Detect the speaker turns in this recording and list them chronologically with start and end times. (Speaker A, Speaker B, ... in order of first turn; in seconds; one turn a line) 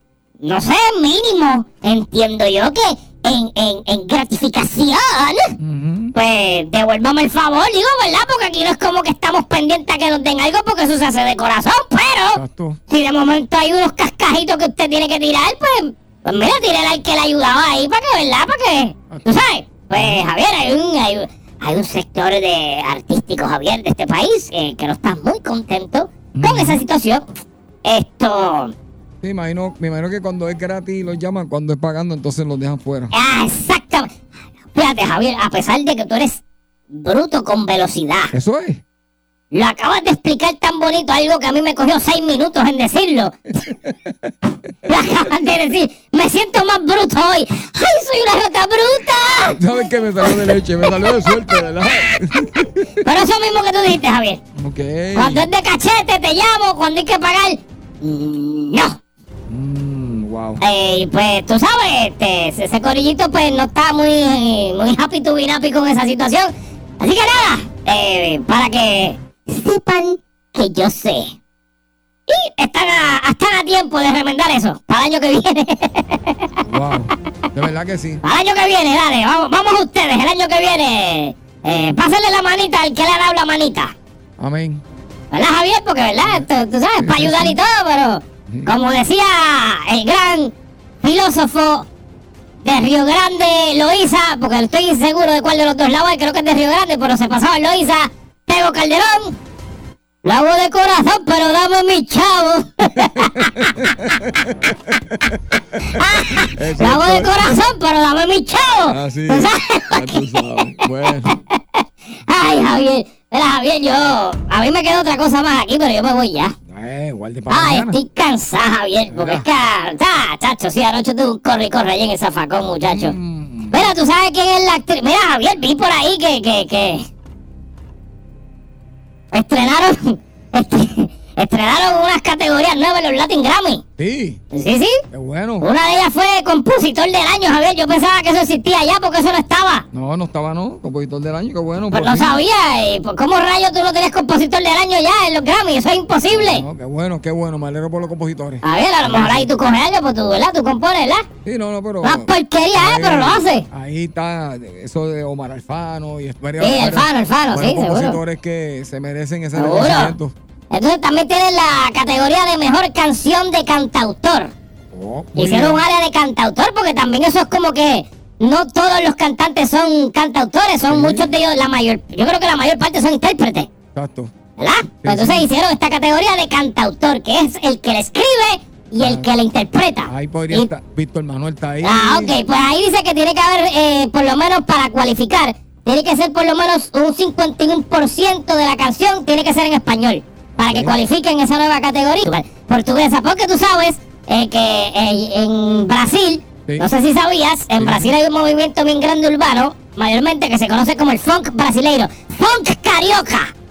Speaker A: 0.4-5.5
Speaker B: 5.6-6.1
Speaker A: 6.1-27.2
Speaker B: 12.3-12.8
Speaker B: 19.1-19.4
Speaker B: 19.9-20.2
Speaker B: 26.3-26.8
Speaker A: 27.8-28.7
Speaker B: 29.2-33.1
Speaker A: 33.1-34.1
Speaker A: 34.7-36.4
Speaker A: 36.9-38.3
Speaker B: 38.3-38.8
Speaker A: 39.5-43.3
Speaker B: 43.6-44.3
Speaker A: 44.9-49.6
Speaker B: 49.5-53.0
Speaker A: 50.2-51.4
Speaker A: 53.0-54.4
Speaker B: 54.5-55.5
Speaker A: 55.1-59.0
Speaker B: 59.5-60.6
Speaker A: 60.6-71.3
Speaker A: 72.3-76.5
Speaker B: 76.7-78.2
Speaker A: 78.2-83.9
Speaker B: 84.4-84.8
Speaker A: 85.3-91.8
Speaker B: 87.0-87.6
Speaker A: 92.6-99.3
Speaker A: 100.2-103.7
Speaker B: 103.0-107.5
Speaker A: 105.8-110.6
Speaker B: 108.9-111.3
Speaker A: 111.2-116.5
Speaker B: 116.7-118.0
Speaker A: 117.5-123.1
Speaker B: 119.1-119.5
Speaker B: 122.8-123.9
Speaker A: 123.7-127.0
Speaker A: 129.3-133.8
Speaker B: 134.0-134.4
Speaker A: 134.5-135.0
Speaker B: 135.1-135.7
Speaker A: 135.6-139.8
Speaker B: 139.9-142.4
Speaker A: 141.9-146.6
Speaker B: 146.3-149.5
Speaker A: 148.6-151.3
Speaker B: 151.4-160.3
Speaker A: 152.0-153.6
Speaker A: 156.6-158.2
Speaker A: 159.6-160.1
Speaker A: 160.7-164.5
Speaker B: 164.9-165.8
Speaker A: 165.3-173.7
Speaker B: 170.9-171.3
Speaker B: 173.9-174.3
Speaker A: 174.6-180.7
Speaker B: 175.0-175.5
Speaker B: 179.0-179.3
Speaker B: 180.1-182.3
Speaker A: 181.8-203.5
Speaker B: 190.7-191.0
Speaker B: 197.8-198.1